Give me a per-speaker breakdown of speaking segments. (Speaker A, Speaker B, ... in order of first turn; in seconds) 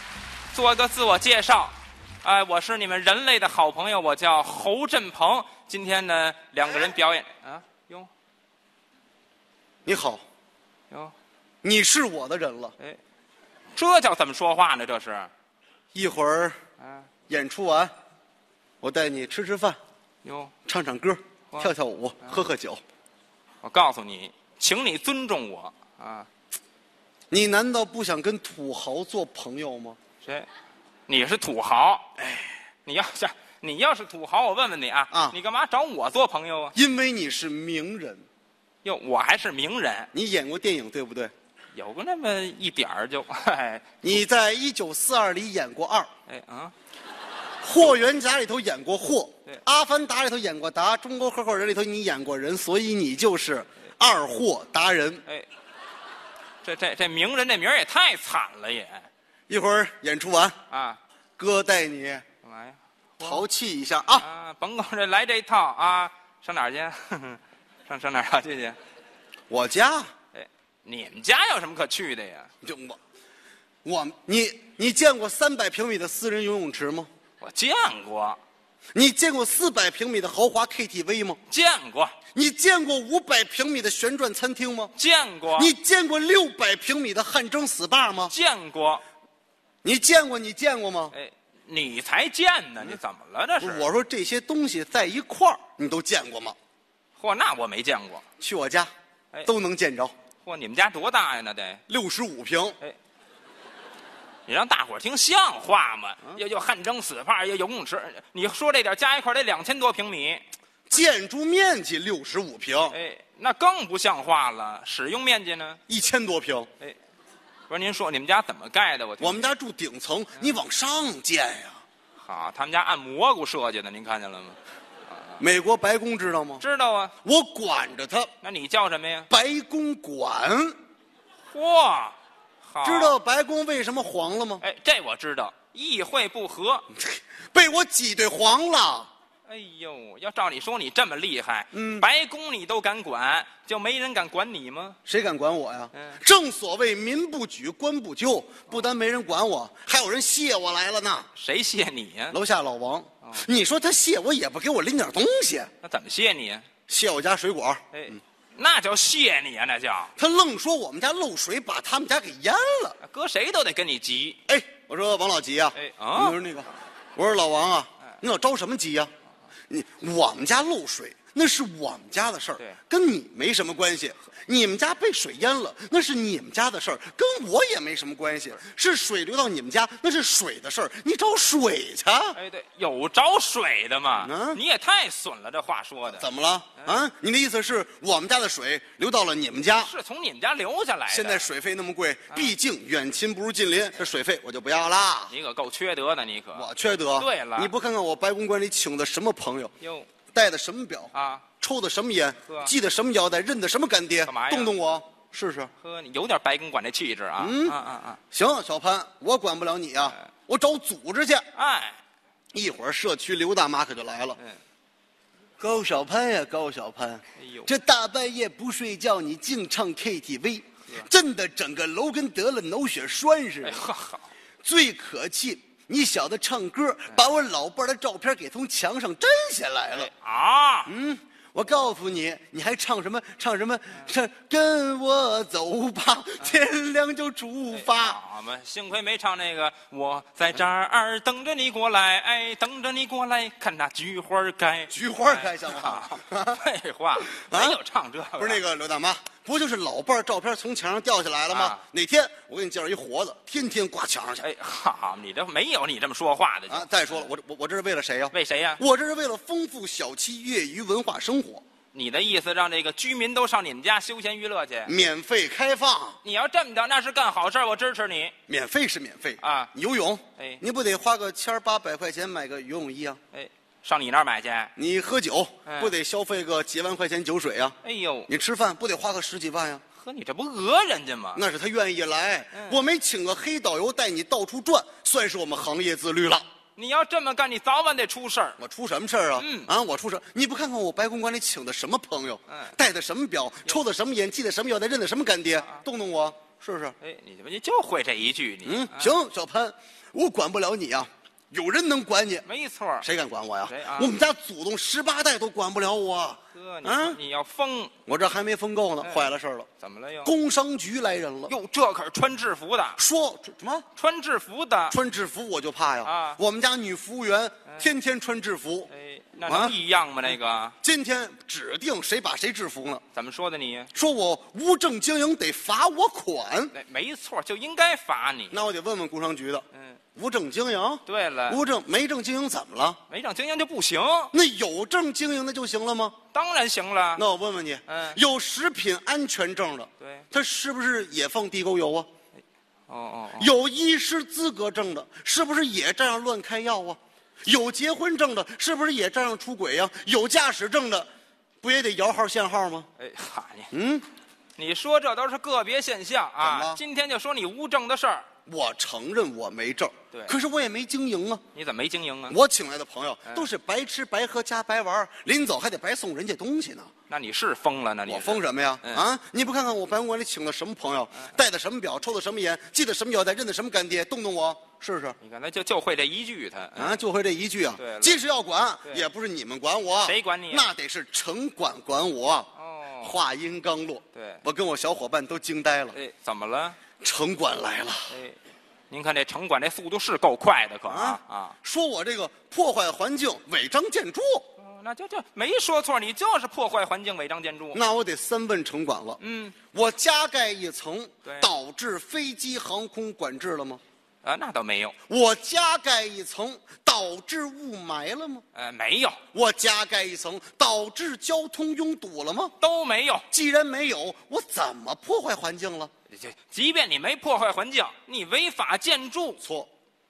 Speaker A: 0.5-8.1, 13.7-15.3, 20.2-20.5, 23.6-26.3, 30.2-30.5, 31.1-32.1, 32.8-36.7, 38.8-40.1, 41.7-44.1, 46.3-46.7, 56.6-59.1, 60.7-61.0, 62.4-63.4, 64.2-68.8, 70.3-72.5, 77.4-78.4, 81.5-82.2, 84.9-85.7, 88.3-89.0, 91.1-93.9, 97.2-98.2, 100.4-101.8, 104.5-110.4, 112.9-115.8, 117.7-119.5, 122.2-124.6, 126.6-127.1, 128.4-129.3, 131.5-133.2, 134.6-136.9, 139.4-145.0, 151.3-152.4, 155.8-156.7, 157.9-160.1, 163.0-164.4, 165.7-166.4, 182.3-186.2, 189.8-191.5, 195.3-197.7, 199.8-200.1, 201.1-201.4, 202.5-202.7, 204.2-204.8, 205.8-208.2, 211.5-212.0, 217.4-217.7, 223.6-224.3, 229.9-230.9, 237.7-248.6, 251.5-251.8, 254.4-257.3, 258.3-258.8, 261.9-264.9, 266.2-268.3, 269.4-269.7, 270.4-270.6, 273.3-274.7, 275.6-275.9, 277.8-278.3, 280.0-281.4, 282.5-282.8, 286.8-288.6, 289.4-289.7, 292.5-292.7, 297.0-299.1, 302.4-303.1, 303.6-304.1, 306.5-307.9, 309.0-310.3, 311.5-313.0, 313.9-315.0, 316.0-316.4, 318.9-320.7, 323.1-323.9, 326.7-328.6, 329.7-330.0, 331.1-331.6, 333.1-334.3, 336.3-337.2, 337.9-338.2, 340.0-340.2, 342.9-343.5, 353.0-353.7, 354.6-358.3, 361.5-362.4, 367.1-369.0, 375.2-377.0, 377.8-378.2, 380.0-380.7, 382.6-383.1, 384.1-384.4, 385.9-386.8, 388.1-388.4, 388.9-391.6, 394.6-397.8, 399.2-399.6, 401.2-401.5, 404.2-404.9, 408.5-409.2, 412.6-413.2, 416.1-419.4
Speaker B: 9.8-10.2, 11.6-12.7, 15.9-16.6, 17.3-17.9, 18.8-19.8, 20.6-22.8, 27.3-30.0, 32.2-32.5, 35.1-35.4, 36.7-38.2, 40.1-41.3, 44.0-46.1, 47.6-55.2, 59.5-60.5, 61.4-62.2, 63.2-64.2, 69.5-70.1, 72.6-73.0, 73.8-77.1, 78.9-81.4, 82.3-84.9, 85.5-88.3, 89.8-91.1, 93.6-96.5, 98.4-98.9, 99.4-100.1, 101.9-102.8, 110.9-113.0, 115.9-116.7, 119.2-121.8, 125.4-126.6, 127.2-128.3, 129.3-130.8, 132.8-134.6, 136.9-139.1, 141.7-142.1, 145.1-151.3, 152.3-155.7, 156.9-158.2, 160.2-163.0, 164.5-169.1, 169.7-182.4, 184.2-184.6, 186.1-189.9, 191.1-195.3, 196.5-199.7, 200.3-205.7, 207.4-207.8, 208.3-211.4, 212.5-214.4, 215.6-223.8, 224.6-230.1, 230.8-238.2, 244.9-246.6, 247.4-247.8, 248.4-254.4, 256.7-261.6, 264.8-266.2, 268.5-273.2, 274.8-277.8, 278.3-279.8, 281.3-286.4, 288.6-296.9, 298.6-302.4, 303.0-307.2, 308.1-309.7, 310.2-311.5, 313.0-313.9, 314.9-318.9, 319.4-319.8, 320.8-323.0, 323.9-326.7, 328.5-333.0, 334.3-336.1, 337.1-342.1, 343.4-351.1, 351.6-352.9, 353.7-354.1, 356.4-356.8, 358.5-361.4, 362.3-366.9, 368.1-375.1, 376.8-382.5, 383.0-386.0, 387.0-388.1, 390.9-394.4, 397.7-399.2, 399.7-403.8, 405.1-408.4, 409.3-412.5, 413.3-415.9, 419.4-419.7